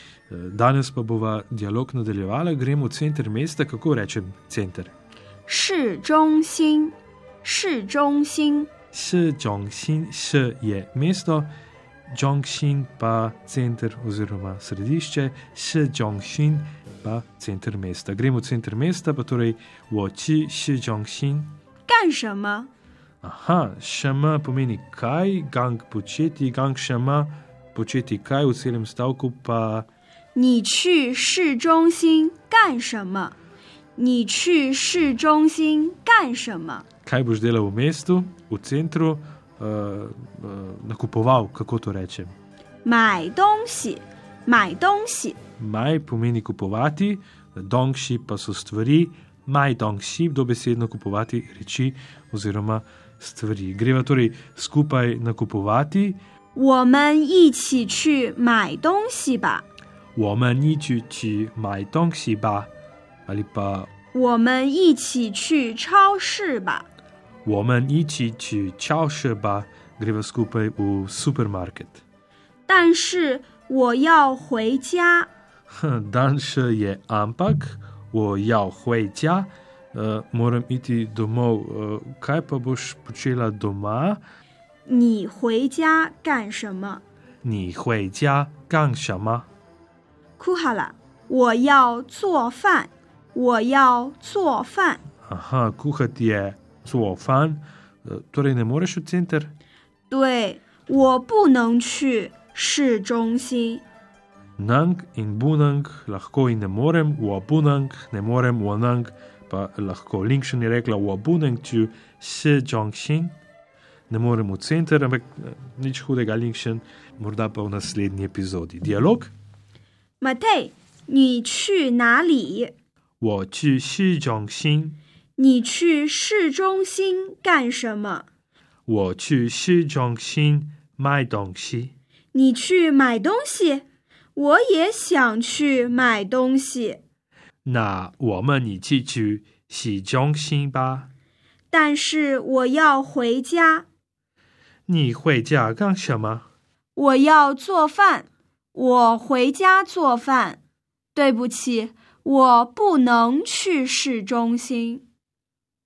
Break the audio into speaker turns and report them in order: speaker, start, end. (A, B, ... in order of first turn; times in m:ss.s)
0:00.3-0:04.9 A
0:05.5-0:08.7 B
0:08.9-0:11.5 A
0:12.1-0:21.5 A
0:21.9-0:22.7 B
0:23.2-0:29.9 A
0:30.4-0:33.4 B
0:34.0-0:36.9 B
0:37.0-0:42.3 A
0:42.8-0:45.4 B
0:45.6-0:56.2 A
0:56.6-0:59.6 B
1:00.2-1:02.7 A
1:03.3-1:03.9 A
1:04.1-1:06.9 B
1:07.4-1:12.0 A
1:12.7-1:15.3 B
1:15.7-1:24.2 A
1:24.9-1:27.0 B
1:27.4-1:29.5 A
1:30.4-1:35.0 B
1:35.2-1:39.5 A
1:40.1-1:43.8 B
1:44.6-1:53.4 A
1:54.1-1:59.3 A
2:00.2-2:02.7 B
2:03.2-2:05.0 A
2:05.4-2:08.3 B
2:08.9-2:12.0 A
2:12.3-2:17.0 B
2:17.6-2:21.1 A
2:21.7-2:23.9 B
2:24.9-2:26.5 A
2:27.0-2:30.6 B
2:31.1-2:35.0 B